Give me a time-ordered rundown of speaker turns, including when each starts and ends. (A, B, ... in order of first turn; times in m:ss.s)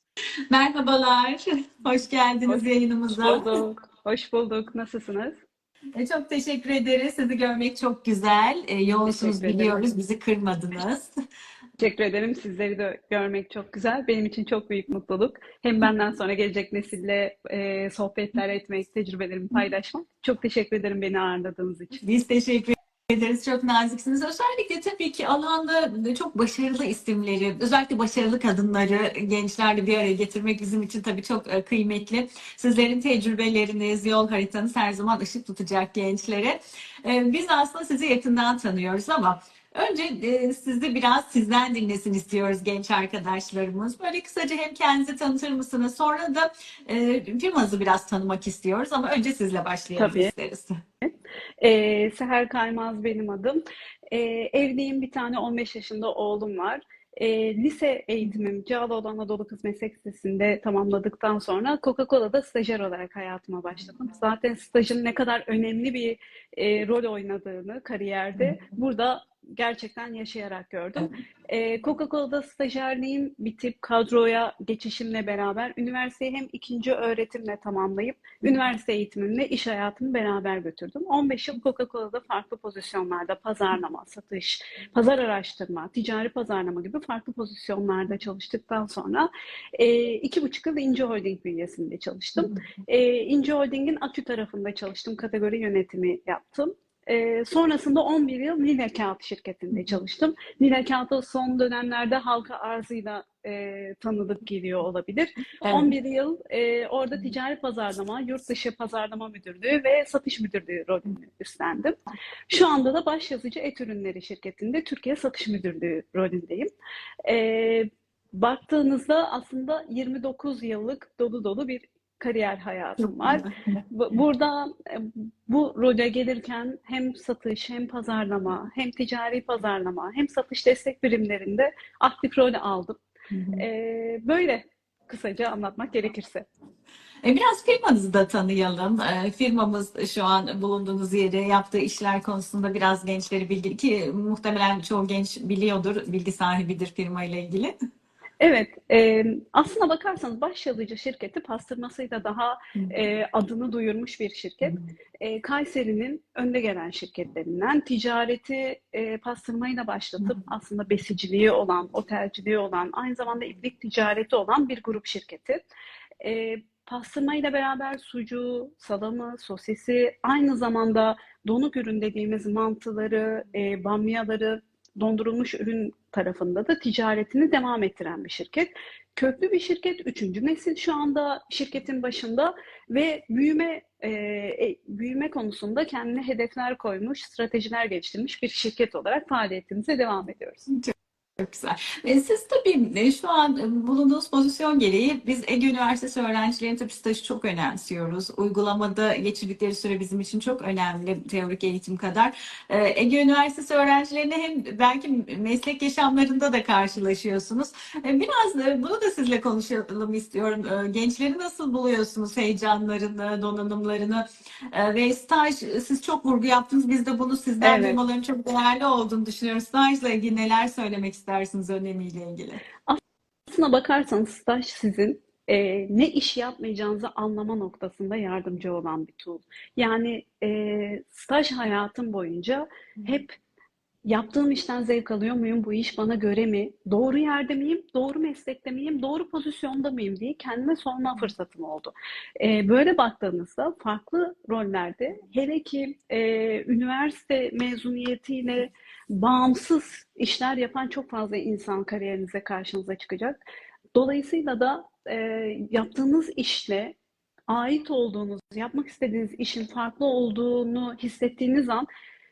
0:00.5-0:03.6 A
0:03.2-0:05.4 B
0:06.0-0:11.1 A
0:09.0-0:09.8 B
0:11.8-0:22.0 B
0:22.0-0:50.8 A
0:50.0-0:50.3 B
0:51.0-1:56.7 B
1:45.6-1:45.9 A
1:57.2-2:13.0 B
2:13.3-2:13.6 A
2:13.5-2:16.4 B
2:17.2-2:27.7 A
2:28.4-2:45.6 B
2:46.2-3:10.6 B
3:10.7-3:42.6 A
3:37.6-3:38.0 B
3:42.9-3:53.4 B
3:54.0-4:13.4 B
4:13.9-4:17.0 B
4:17.5-4:21.9 B